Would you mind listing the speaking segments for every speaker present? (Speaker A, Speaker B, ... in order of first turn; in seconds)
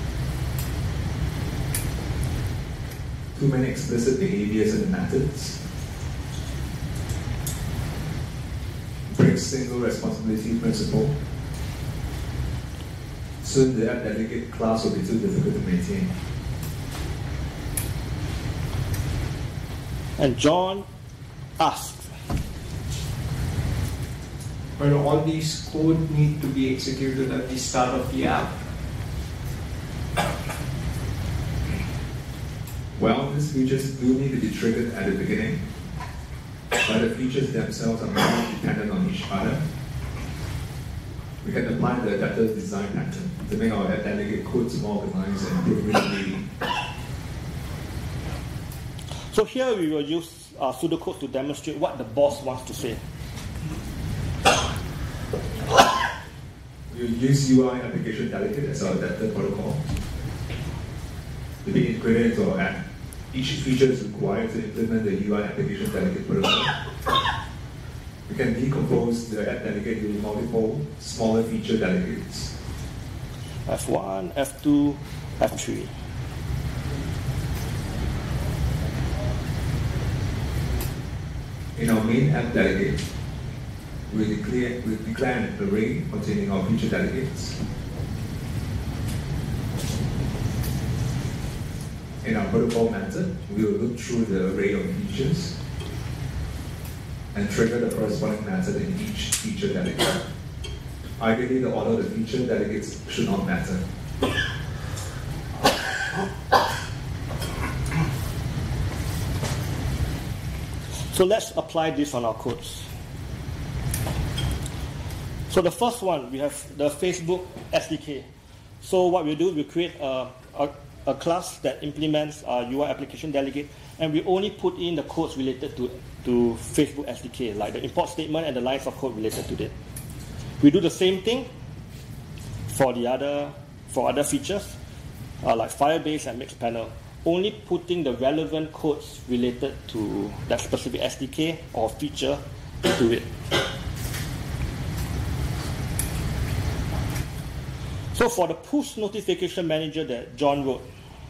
Speaker A: 3.3-5.6, 9.1-11.2, 13.4-16.1, 33.0-35.6, 36.8-39.6, 41.4-46.5, 56.9-59.8, 61.6-66.8, 68.3-72.5, 81.8-83.0, 84.1-87.6, 92.2-95.5, 97.3-100.2, 101.2-103.8
Speaker B: 20.2-20.9, 21.6-22.1, 49.3-53.0, 73.7-75.9, 111.1-112.9, 115.5-118.2, 118.8-129.7, 130.6-131.5, 132.7-134.8, 135.4-143.3, 148.1-150.8
Speaker C: 24.8-28.6